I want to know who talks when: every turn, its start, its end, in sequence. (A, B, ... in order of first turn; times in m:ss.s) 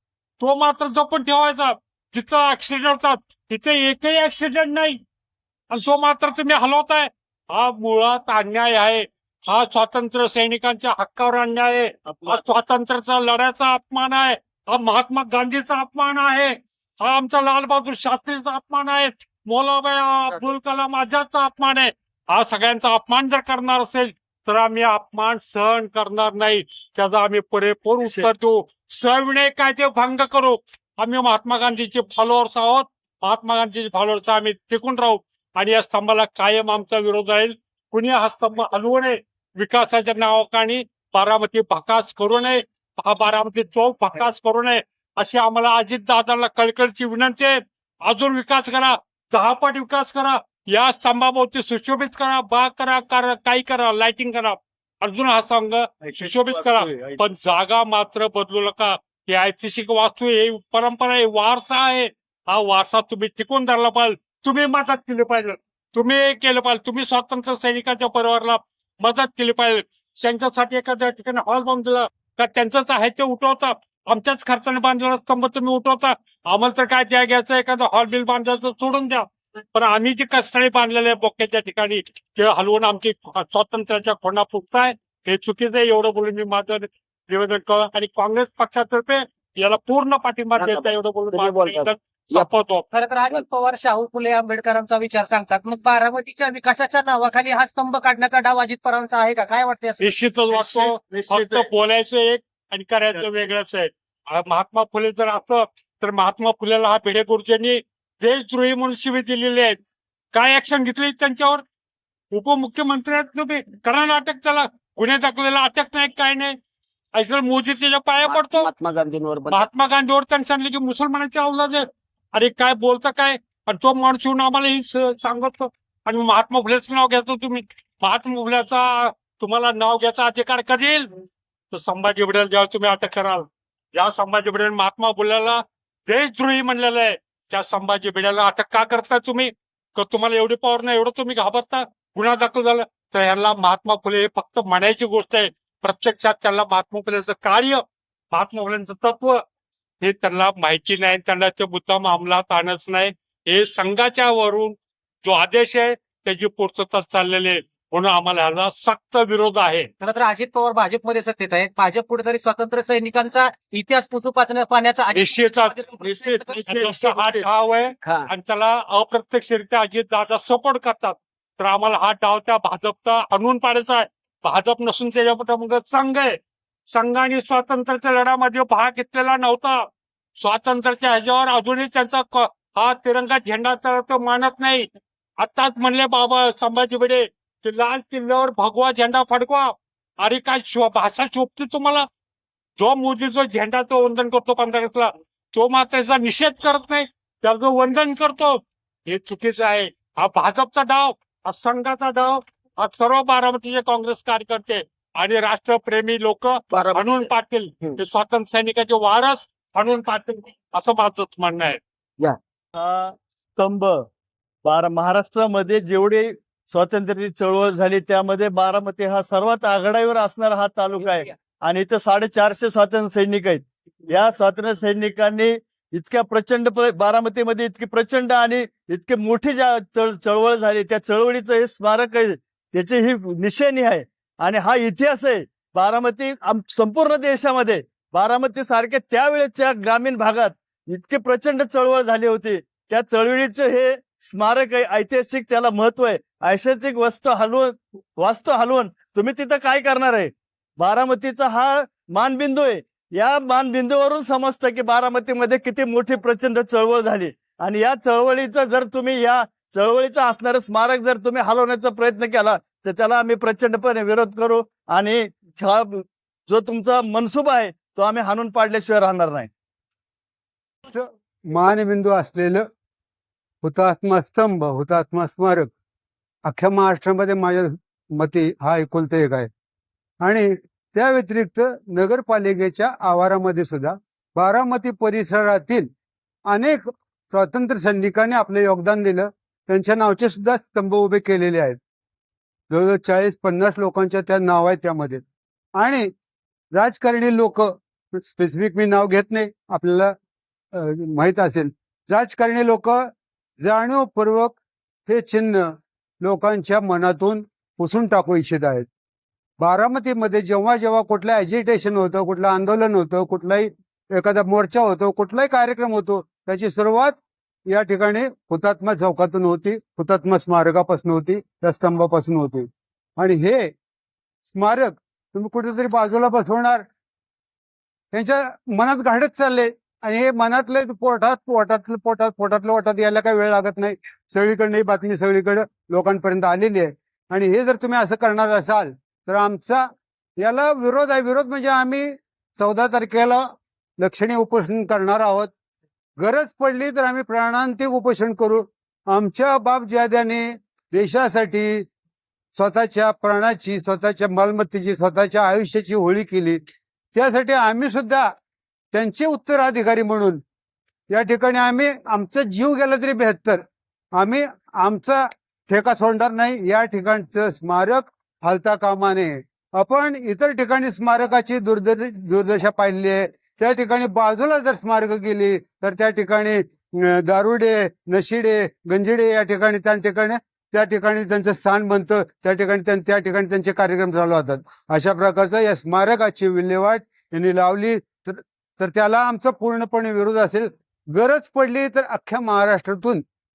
0:00.4-0:05.0 A
0:05.7-1:32.9 A
0:12.1-0:12.4 B
0:28.0-0:28.3 B
0:56.0-0:57.2 B
1:30.6-1:32.5 C
1:32.9-1:40.1 D
1:40.0-1:49.8 A
1:40.5-1:41.7 B
1:43.1-1:43.5 B
1:50.3-1:51.6 A
1:52.3-1:56.6 A
1:57.2-1:58.7 A
1:58.2-1:59.7 C
1:59.5-2:11.1 A
2:11.7-2:29.4 A
2:30.0-2:39.9 A
2:40.0-2:46.6 D
2:45.1-2:45.8 A
2:46.0-2:47.4 B
2:46.7-2:56.4 A
2:48.0-2:48.3 C
2:56.9-2:59.8 A
3:00.4-3:04.9 A
3:05.4-3:12.1 A
3:12.8-3:31.8 A
3:26.7-3:27.3 C
3:32.8-3:34.1 B
3:34.6-4:29.5 B
4:30.8-4:32.6 E
4:33.6-4:35.7 E
4:36.4-4:39.5 E
4:40.2-4:45.9 E
4:46.5-4:51.8 E
4:52.7-4:55.2 E
4:55.8-4:56.1 E
4:56.7-5:00.1 E
5:00.7-5:04.6 E
5:05.1-5:08.9 E
5:09.6-5:23.7 E
5:24.4-5:26.8 E
5:28.1-5:39.9 E
5:40.4-5:43.4 E
5:44.0-5:45.5 E
5:46.2-5:51.9 E
5:52.5-5:58.3 E
5:58.9-6:00.4 E
6:01.1-6:33.2 E